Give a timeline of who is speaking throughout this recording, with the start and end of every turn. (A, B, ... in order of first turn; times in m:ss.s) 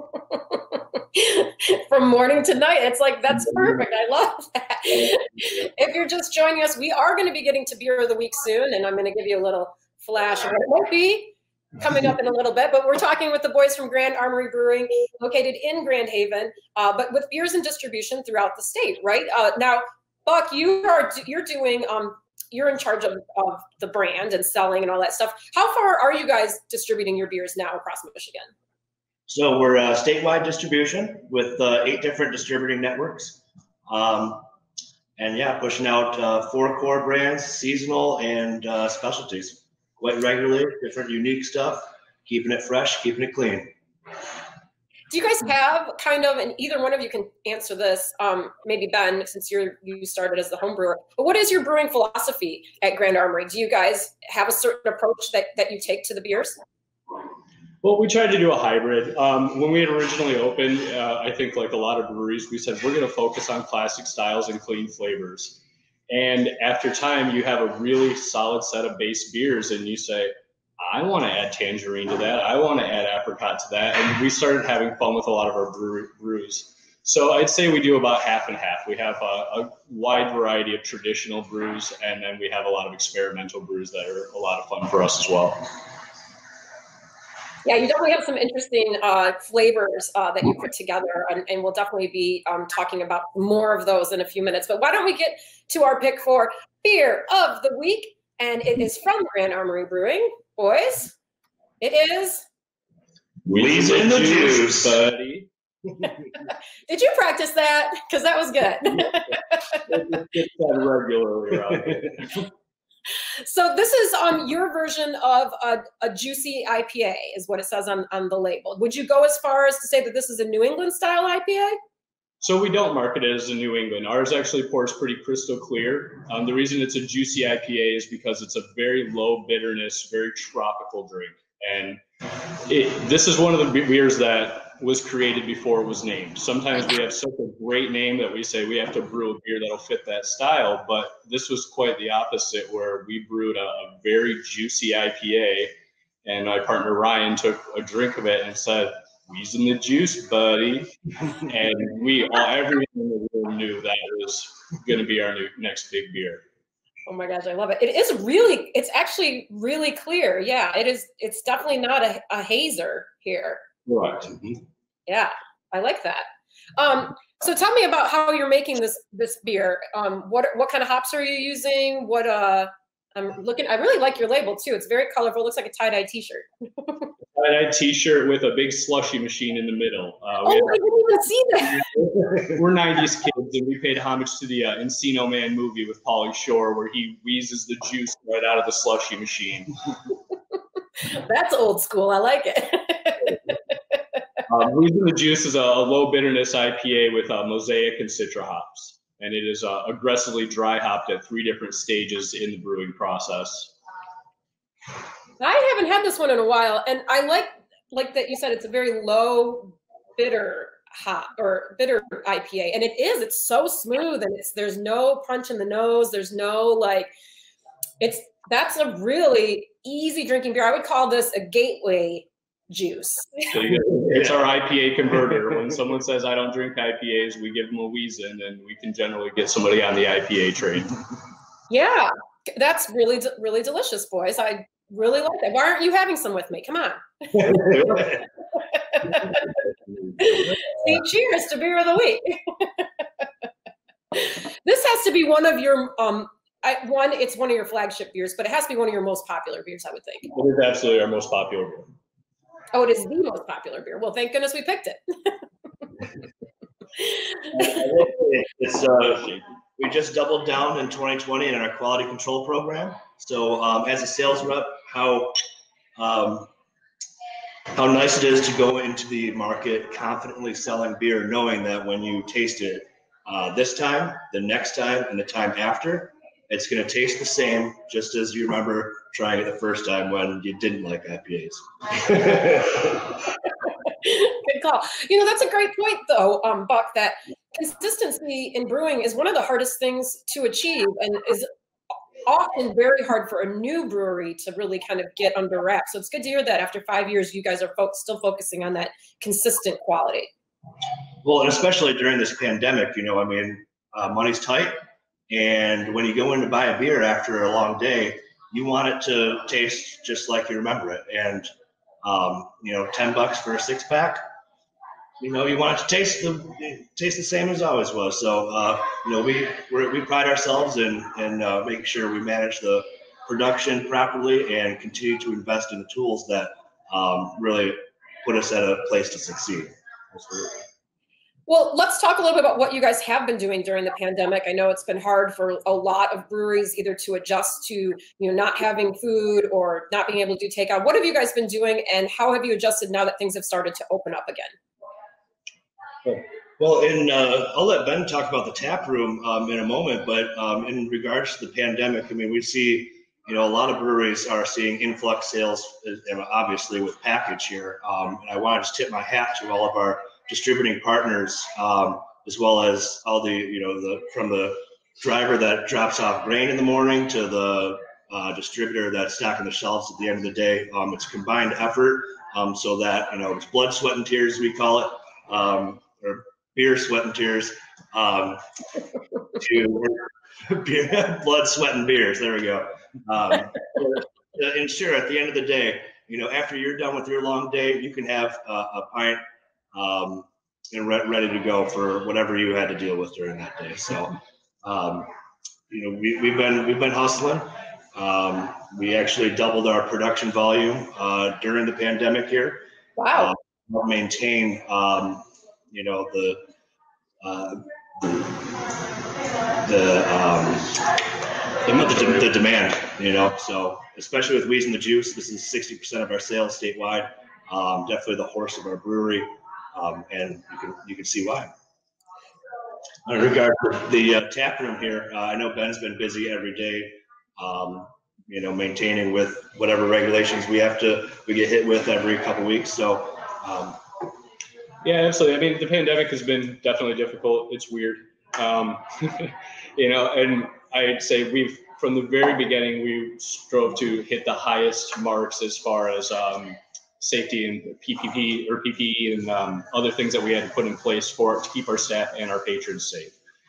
0:00.2-0:28.5 A
0:29.3-0:34.5 B
0:35.2-0:43.7 B
0:45.1-0:56.6 A
0:57.8-1:25.7 C
1:27.6-1:41.2 A
1:41.8-1:42.4 A
1:43.5-1:45.5 C
1:43.5-1:45.0 B
1:46.4-1:49.8 A
1:49.9-1:52.4 C
1:53.2-2:01.8 A
2:02.4-2:12.0 C
2:12.6-2:25.7 C
2:26.2-2:36.4 C
2:37.0-2:43.6 A
2:43.9-2:44.3 C
2:45.1-2:46.2 A
2:46.8-2:57.1 A
2:57.3-3:00.8 C
3:00.4-3:01.9 A
3:01.8-3:09.7 C
3:11.0-3:13.6 A
3:14.5-3:23.7 C
3:25.4-3:37.1 A
3:38.0-3:43.4 A
3:43.5-3:50.9 C
3:44.0-3:44.4 B
3:51.7-3:58.2 A
3:57.3-3:58.2 B
3:58.7-3:59.4 A
4:00.2-4:03.2 A
4:04.1-4:10.3 A
4:10.3-4:11.9 C
4:12.7-4:15.4 A
4:17.0-4:17.4 A
4:17.5-4:25.4 B
4:26.0-4:26.5 B
4:27.7-4:43.1 B
4:43.8-4:51.5 A
4:52.2-5:00.3 A
5:01.2-5:11.5 B
5:12.0-5:14.2 B
5:15.2-5:30.5 B
5:31.5-5:44.5 A
5:46.0-6:18.4 B
6:19.4-6:29.2 B
6:29.7-6:35.1 B
6:35.7-6:46.4 B
6:43.0-6:43.3 A
6:47.2-6:48.4 B
6:49.6-6:51.0 B
6:51.6-7:01.5 B
7:03.0-7:13.8 B
7:14.8-7:33.2 C